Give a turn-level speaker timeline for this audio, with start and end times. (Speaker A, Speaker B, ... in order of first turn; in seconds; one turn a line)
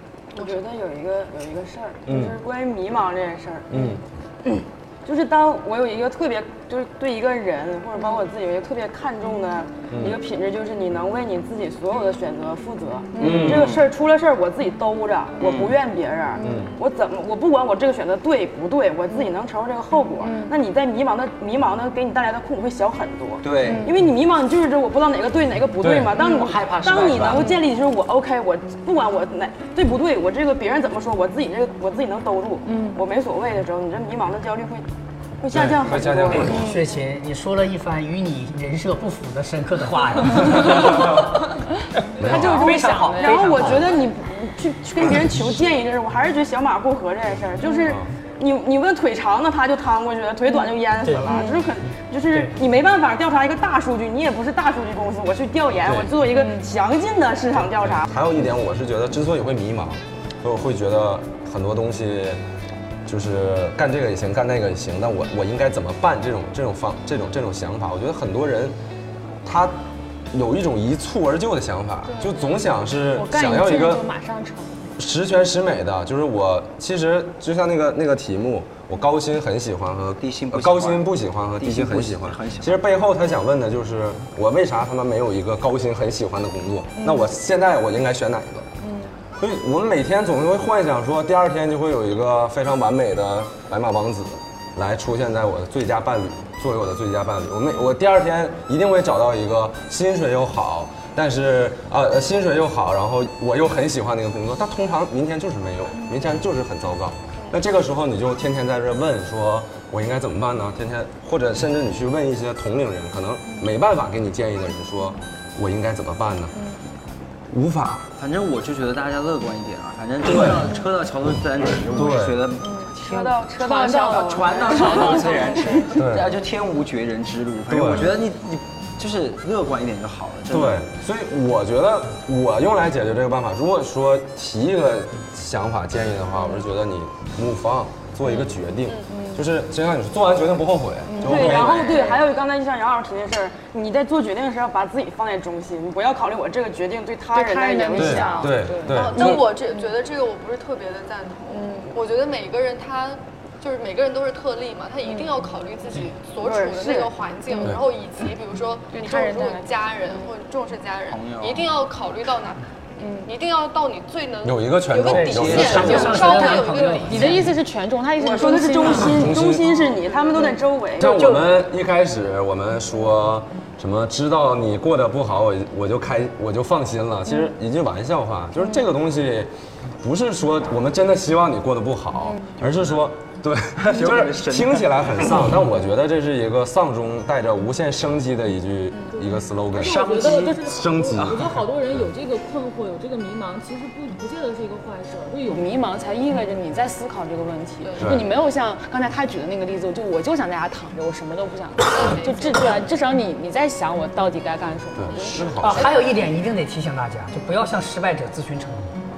Speaker A: 0.3-3.7
Speaker B: 2.1-2.4
Speaker B: 3.7-4.0
Speaker A: 4.5-34.8
Speaker B: 9.9-10.2
Speaker C: 13.1-13.5
Speaker D: 13.2-13.7
Speaker B: 13.2-13.8
Speaker D: 15.4-15.8
Speaker C: 16.4-16.7
Speaker B: 16.4-16.7
Speaker C: 20.2-20.5
Speaker D: 23.4-23.9
Speaker C: 23.6-23.9
Speaker B: 25.8-26.1
Speaker D: 26.2-27.6
Speaker C: 27.2-27.6
Speaker C: 32.6-33.0
Speaker A: 35.4-36.7
Speaker B: 35.5-36.6
Speaker E: 36.3-41.3
Speaker C: 40.4-41.1
Speaker C: 42.1-44.0
Speaker B: 42.2-42.8
Speaker E: 42.3-43.8
Speaker A: 42.3-58.0
Speaker C: 47.6-47.9
Speaker E: 51.1-51.3
Speaker C: 51.2-51.6
Speaker B: 55.8-56.1
Speaker C: 56.3-56.7
Speaker B: 57.9-62.4
Speaker B: 63.0-68.8
Speaker B: 69.4-69.8
Speaker B: 70.3-74.0
Speaker C: 72.1-72.6
Speaker C: 73.1-74.9
Speaker B: 75.0-88.7
Speaker D: 80.2-81.1
Speaker D: 81.6-82.8
Speaker C: 87.0-87.3
Speaker C: 88.8-89.2
Speaker B: 89.4-116.5
Speaker B: 117.5-118.1
Speaker D: 118.2-123.3
Speaker B: 121.9-122.4
Speaker C: 122.6-122.9
Speaker A: 122.8-125.5
Speaker C: 123.6-126.0
Speaker D: 123.8-130.8
Speaker B: 125.9-126.3
Speaker B: 127.7-128.2
Speaker B: 130.5-142.1
Speaker C: 139.1-139.4
Speaker C: 141.1-142.2
Speaker A: 141.2-148.6
Speaker C: 147.3-149.9
Speaker B: 147.9-149.5
Speaker F: 148.9-162.6
Speaker C: 151.5-151.9
Speaker C: 155.0-155.3
Speaker A: 156.4-157.2
Speaker C: 157.5-157.8
Speaker C: 158.9-160.3
Speaker D: 161.1-161.7
Speaker C: 163.0-163.3
Speaker F: 163.2-167.5
Speaker B: 164.4-166.3
Speaker E: 165.0-167.5
Speaker D: 165.1-166.3
Speaker C: 165.5-169.4
Speaker A: 168.2-171.2
Speaker B: 169.1-169.8
Speaker C: 170.3-170.6
Speaker B: 171.0-192.1
Speaker E: 171.0-171.5
Speaker C: 182.3-182.6
Speaker D: 183.8-185.6
Speaker C: 189.0-205.9
Speaker D: 189.8-191.5
Speaker F: 197.8-198.3
Speaker B: 198.0-198.3
Speaker F: 201.9-202.8
Speaker B: 204.9-205.9
Speaker F: 205.1-205.9
Speaker E: 205.6-209.0